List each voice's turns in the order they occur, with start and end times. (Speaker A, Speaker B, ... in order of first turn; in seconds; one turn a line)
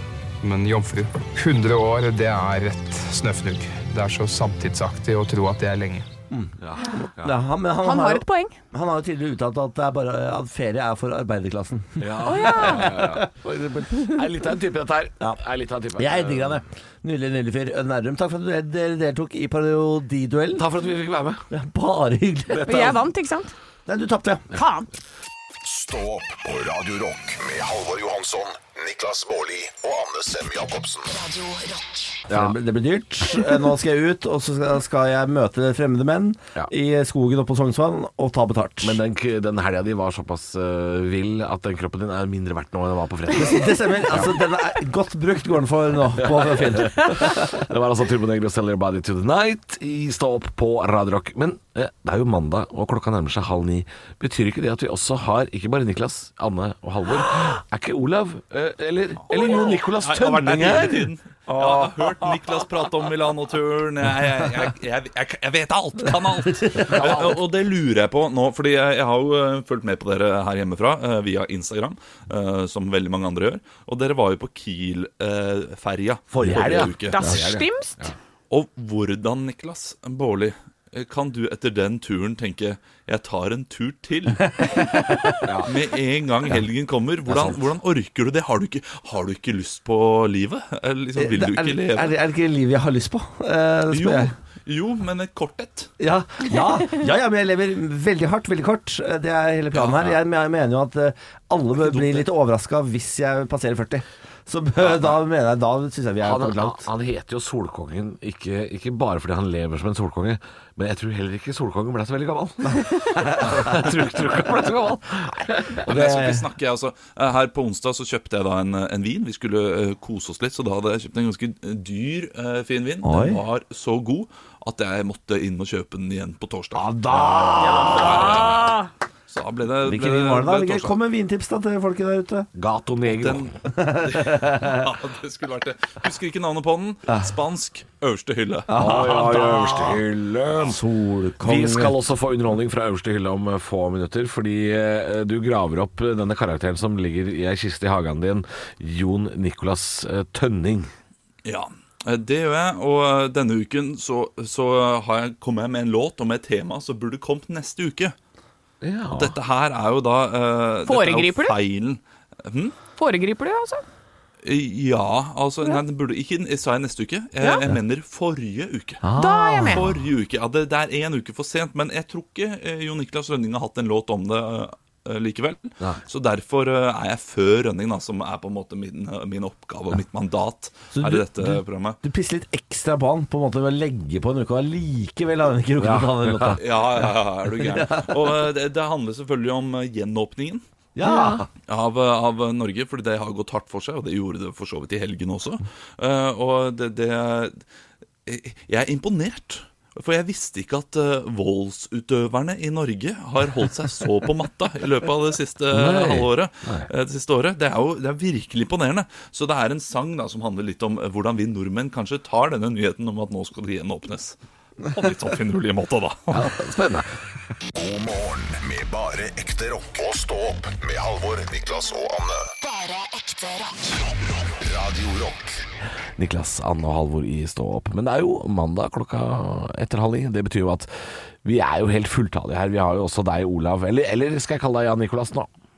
Speaker A: 0.4-6.1
Speaker B: 6.6-7.3
Speaker C: 7.2-13.9
Speaker D: 7.8-8.6
Speaker B: 12.0-16.6
Speaker D: 12.2-12.9
Speaker C: 16.0-20.7
Speaker B: 20.5-21.4
Speaker C: 21.5-22.9
Speaker B: 22.5-23.0
Speaker D: 22.7-23.5
Speaker C: 23.9-24.4
Speaker D: 24.5-24.9
Speaker E: 25.6-31.1
Speaker F: 31.1-32.2
Speaker B: 32.3-32.5
Speaker C: 32.3-39.0
Speaker B: 38.8-44.3
Speaker C: 43.3-47.5
Speaker B: 46.2-62.4
Speaker G: 59.3-77.3
Speaker C: 66.5-67.1
Speaker B: 66.8-67.4
Speaker B: 76.3-78.1
Speaker D: 77.0-78.0
Speaker G: 78.5-85.0
Speaker C: 84.6-85.4
Speaker B: 85.4-85.7
Speaker G: 85.7-92.1
Speaker B: 87.3-87.6
Speaker C: 91.2-94.3
Speaker G: 93.9-95.9
Speaker C: 96.0-106.8
Speaker G: 99.7-100.1
Speaker G: 101.9-102.2
Speaker B: 106.2-115.9
Speaker C: 113.1-113.8
Speaker G: 115.8-127.0
Speaker C: 115.9-116.4
Speaker C: 123.0-123.4
Speaker B: 126.8-128.4
Speaker C: 127.1-128.4
Speaker D: 127.6-128.9
Speaker G: 127.7-128.8
Speaker G: 129.3-130.9
Speaker C: 129.8-132.5
Speaker B: 132.5-133.5
Speaker G: 133.1-138.7
Speaker C: 133.7-134.9
Speaker C: 138.7-140.0
Speaker B: 138.7-140.8
Speaker C: 140.6-141.9
Speaker B: 141.4-150.9
Speaker G: 151.4-158.2
Speaker B: 158.8-159.3
Speaker G: 159.2-162.8
Speaker D: 160.8-161.6
Speaker D: 162.9-163.8
Speaker G: 164.4-169.1
Speaker D: 167.4-167.7
Speaker C: 169.0-169.8
Speaker D: 169.2-169.9
Speaker G: 169.7-182.0
Speaker C: 180.9-187.0
Speaker B: 185.8-186.6
Speaker G: 186.6-190.6
Speaker C: 187.6-188.3
Speaker C: 190.9-191.5
Speaker B: 191.0-191.4
Speaker G: 191.7-197.6
Speaker G: 198.2-216.5
Speaker B: 205.7-206.9
Speaker B: 216.3-217.1
Speaker E: 217.7-222.5
Speaker F: 222.6-224.1
Speaker E: 224.4-225.6
Speaker B: 226.2-230.9
Speaker B: 231.4-235.5